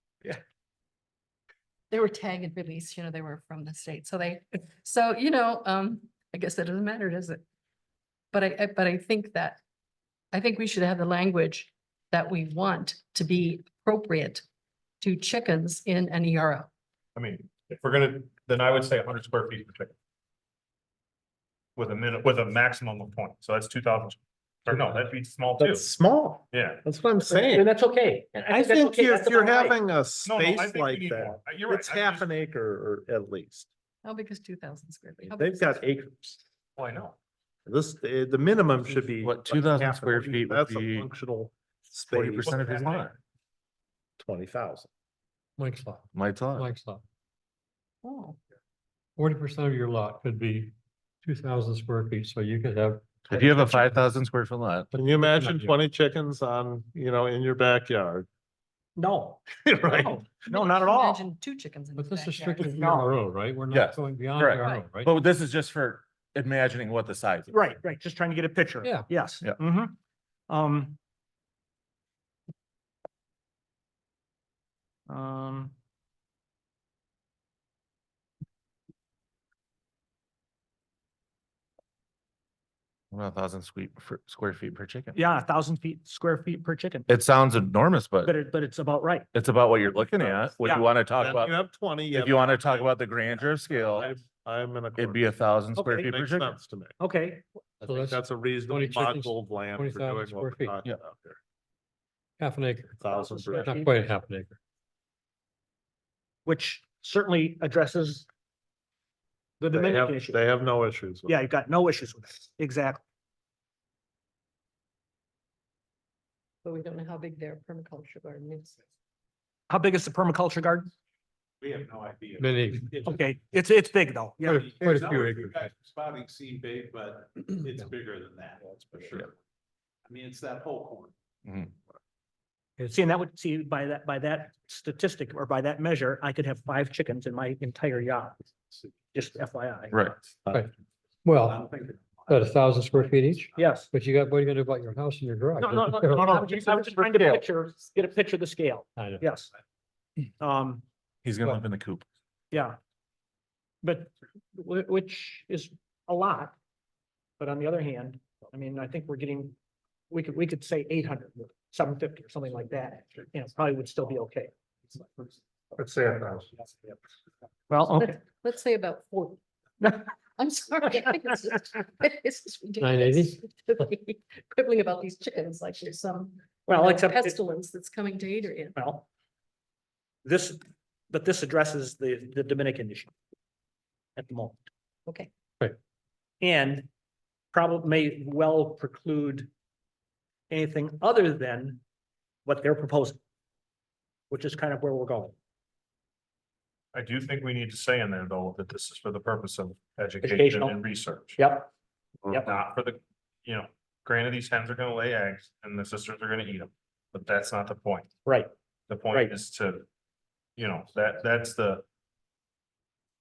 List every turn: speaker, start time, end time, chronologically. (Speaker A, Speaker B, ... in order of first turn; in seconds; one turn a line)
Speaker A: 1.9-7.4
Speaker A: 8.3-9.6
Speaker A: 10.3-14.4
Speaker A: 15.0-16.7
Speaker B: 17.1-19.9
Speaker B: 21.8-25.9
Speaker C: 25.6-27.7
Speaker B: 26.5-26.8
Speaker D: 27.2-29.8
Speaker C: 28.5-33.7
Speaker B: 30.2-32.3
Speaker A: 34.0-35.9
Speaker C: 35.3-36.4
Speaker B: 36.8-37.2
Speaker C: 37.7-42.6
Speaker E: 39.2-41.1
Speaker E: 42.1-43.2
Speaker B: 42.5-43.1
Speaker C: 44.2-44.9
Speaker F: 45.6-47.0
Speaker E: 46.1-46.7
Speaker A: 48.0-48.4
Speaker F: 49.2-54.0
Speaker E: 53.3-54.9
Speaker F: 54.9-55.8
Speaker C: 55.0-58.3
Speaker D: 59.0-61.2
Speaker C: 59.6-60.2
Speaker A: 60.5-62.7
Speaker F: 62.0-65.1
Speaker D: 62.6-63.1
Speaker E: 63.7-67.5
Speaker D: 67.5-70.0
Speaker F: 68.8-69.1
Speaker D: 70.5-71.0
Speaker D: 75.1-75.7
Speaker E: 83.1-85.2
Speaker D: 85.1-87.1
Speaker E: 87.1-88.4
Speaker D: 88.2-89.3
Speaker E: 89.3-91.5
Speaker C: 91.2-95.3
Speaker E: 92.1-94.1
Speaker E: 95.0-96.6
Speaker D: 95.8-96.1
Speaker C: 96.0-96.9
Speaker D: 97.0-97.5
Speaker F: 97.8-100.8
Speaker C: 97.9-101.4
Speaker F: 102.4-103.0
Speaker C: 103.0-103.7
Speaker D: 103.0-103.9
Speaker F: 103.6-104.6
Speaker D: 106.5-108.3
Speaker D: 109.6-110.4
Speaker C: 109.7-111.3
Speaker D: 111.3-113.0
Speaker A: 116.6-118.8
Speaker D: 119.7-120.9
Speaker G: 121.6-123.2
Speaker F: 122.4-123.0
Speaker D: 123.0-124.7
Speaker F: 124.4-125.6
Speaker G: 124.4-129.3
Speaker G: 130.1-131.1
Speaker E: 131.5-131.7
Speaker D: 132.8-138.4
Speaker D: 139.1-140.0
Speaker F: 141.2-141.7
Speaker G: 141.4-143.8
Speaker F: 142.3-146.4
Speaker D: 143.6-143.9
Speaker D: 145.6-149.5
Speaker E: 146.2-147.4
Speaker F: 149.0-149.3
Speaker D: 150.4-150.8
Speaker E: 151.2-152.1
Speaker D: 152.5-152.8
Speaker D: 153.8-156.6
Speaker D: 157.4-159.6
Speaker D: 160.1-164.5
Speaker C: 165.7-166.5
Speaker D: 167.7-168.2
Speaker A: 168.4-169.4
Speaker D: 169.8-170.1
Speaker A: 170.4-178.8
Speaker F: 172.8-173.4
Speaker D: 176.7-177.4
Speaker D: 178.8-179.1
Speaker D: 180.2-183.1
Speaker D: 184.2-184.6
Speaker D: 186.4-186.9
Speaker D: 187.5-189.5
Speaker D: 190.5-191.8
Speaker D: 192.4-193.2
Speaker D: 194.3-195.3
Speaker B: 196.9-201.4
Speaker D: 200.2-200.8
Speaker D: 201.4-201.7
Speaker D: 202.3-202.6
Speaker B: 202.3-208.1
Speaker D: 208.3-208.5
Speaker B: 208.9-209.8
Speaker D: 209.1-209.4
Speaker B: 210.6-211.8